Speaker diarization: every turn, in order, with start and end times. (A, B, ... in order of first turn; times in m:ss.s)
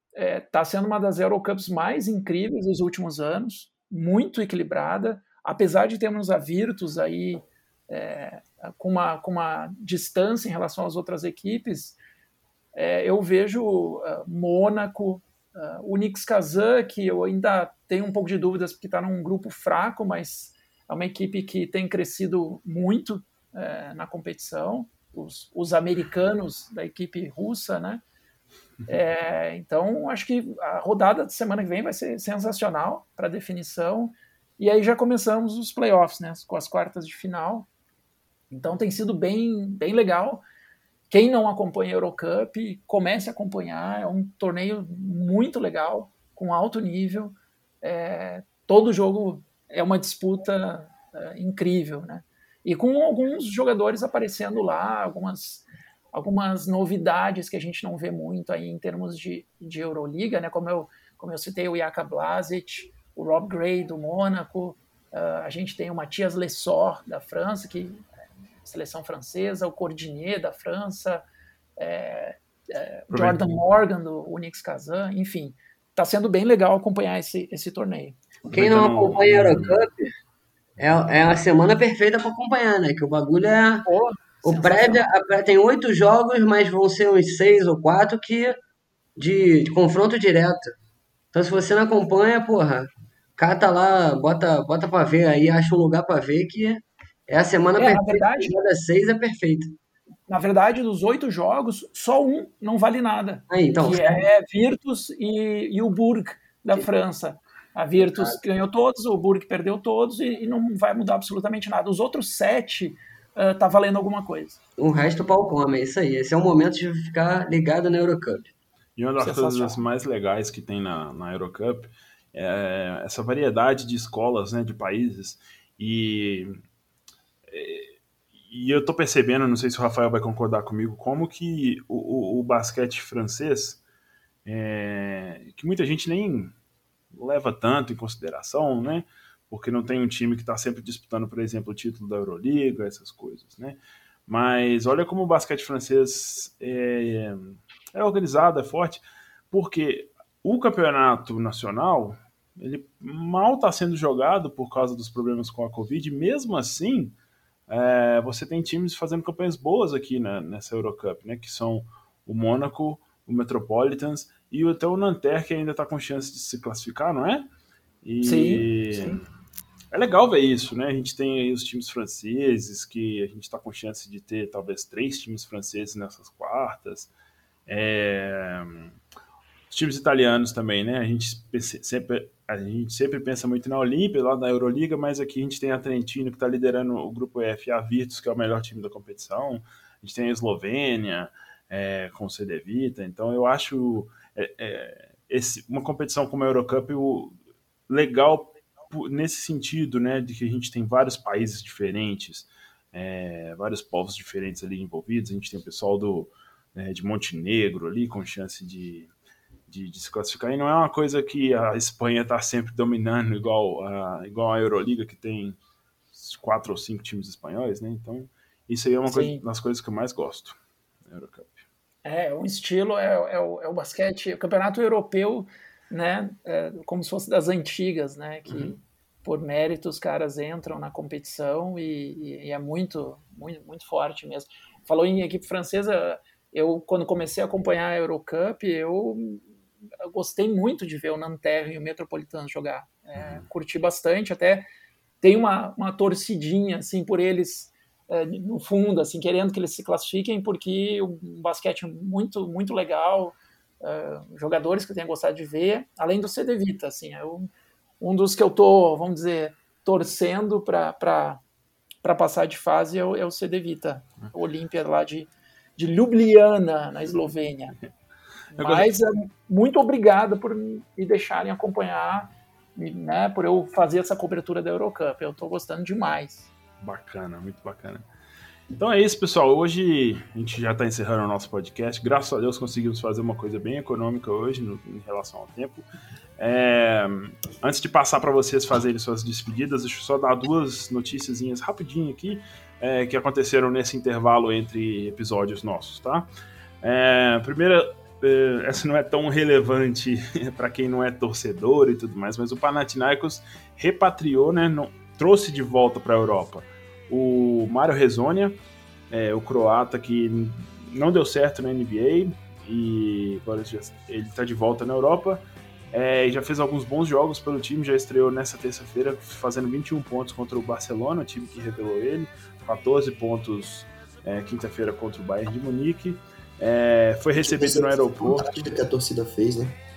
0:00.1-0:12.0 A
0:12.7-0:28.0 A
0:28.9-0:37.7 A
0:38.5-0:40.4 A
0:41.1-1:08.0 A
1:08.6-1:11.2 A
1:11.8-1:18.2 A
1:13.1-1:13.4 B
1:18.5-1:19.8 B
1:18.5-1:20.1 C
1:20.8-1:23.9 C
1:23.8-1:25.1 A
1:24.4-1:28.6 C
1:29.2-1:30.7 C
1:31.3-1:39.8 C
1:37.8-1:38.5 A
1:40.3-1:54.6 A
1:43.5-1:44.2 C
1:48.1-1:48.4 C
1:54.8-1:58.5 C
1:59.0-2:06.6 B
1:59.2-1:59.8 A
2:07.5-2:08.0 B
2:08.5-2:13.8 B
2:14.4-2:16.5 B
2:17.1-2:37.2 B
2:37.7-2:47.5 B
2:48.0-2:49.2 B
2:48.2-2:49.2 A
2:49.9-2:57.1 B
2:57.7-2:58.9 B
2:59.7-3:17.4 B
3:17.9-3:29.1 B
3:29.7-3:35.6 B
3:36.1-3:41.6 B
3:39.1-3:39.4 A
3:42.0-3:59.5 A
3:48.5-3:48.7 B
4:00.0-4:04.7 A
4:03.2-4:03.5 B
4:05.2-4:17.5 A
4:18.0-4:21.4 A
4:22.0-4:27.8 A
4:28.5-4:36.5 A
4:28.6-4:28.9 B
4:36.8-4:38.0 B
4:38.7-4:45.8 B
4:46.4-4:56.3 B
4:56.8-5:28.8 B
5:27.4-5:29.8 D